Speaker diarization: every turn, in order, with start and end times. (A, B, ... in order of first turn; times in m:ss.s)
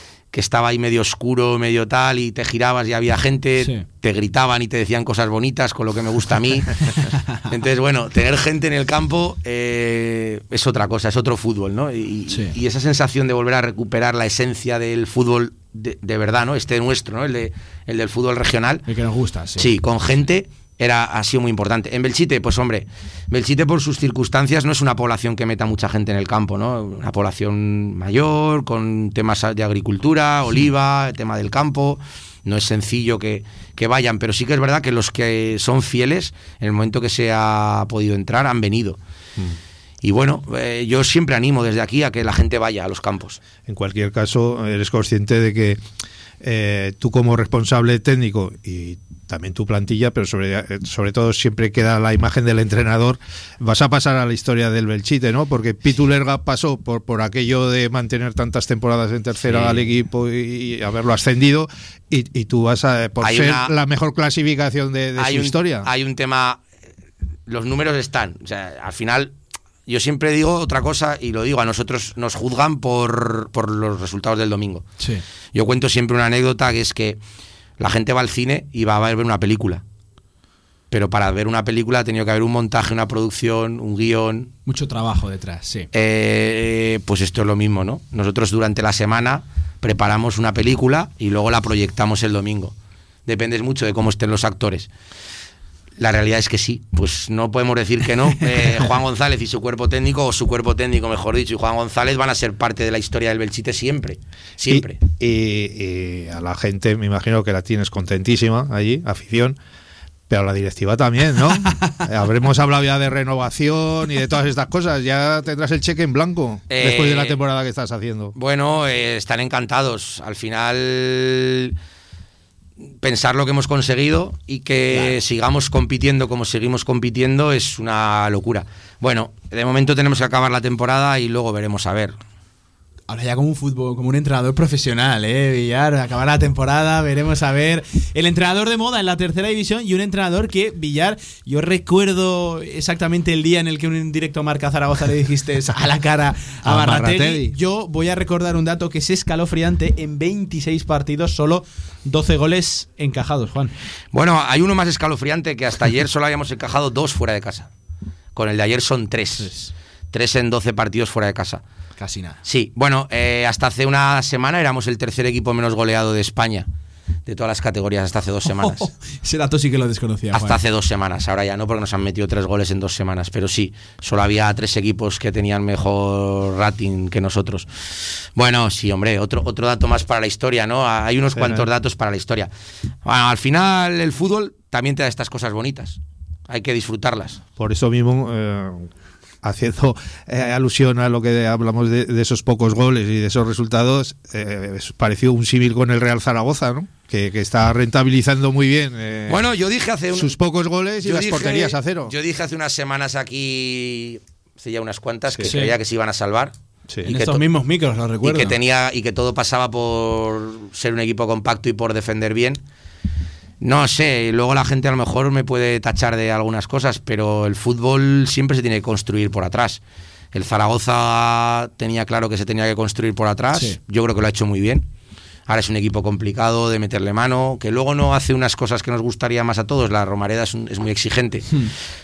0:00.3-0:07.0 A
0:07.5-0:18.8 A
0:12.3-0:12.5 B
0:18.9-0:19.7 B
0:19.6-0:39.0 A
0:40.0-0:43.4 A
0:43.7-0:45.8 C
0:46.4-1:05.9 C
0:59.5-0:59.8 A
1:03.2-1:03.7 A
1:05.2-1:06.6 A
1:07.5-1:09.3 A
1:09.9-1:14.8 A
1:15.5-1:17.2 A
1:17.8-1:19.8 A
1:20.9-1:24.5 A
1:24.6-1:25.9 B
1:25.9-1:32.7 A
1:33.2-1:34.9 A
1:36.0-1:45.0 A
1:44.7-1:49.6 C
1:50.3-1:58.3 C
1:56.7-1:57.4 A
1:58.4-2:01.8 A
2:03.0-2:12.2 A
2:13.1-2:33.7 B
2:26.6-2:27.5 C
2:34.1-2:37.7 A
2:38.3-2:39.5 A
2:39.4-2:39.7 B
2:40.1-2:41.6 A
2:42.0-2:42.4 B
2:42.4-2:46.7 A
2:47.2-2:48.9 A
2:48.6-2:50.6 B
2:50.3-2:57.7 A
2:58.4-3:02.5 A
3:01.3-3:01.7 C
3:03.0-3:07.4 A
3:07.6-3:08.9 C
3:09.4-3:19.4 C
3:19.3-3:20.3 A
3:20.1-3:22.1 C
3:21.0-3:26.5 A
3:25.4-3:25.7 B
3:27.0-3:27.4 A
3:27.0-3:28.5 B
3:28.2-3:32.6 A
3:33.6-3:39.8 A
3:40.3-3:44.8 A
3:45.5-3:51.5 A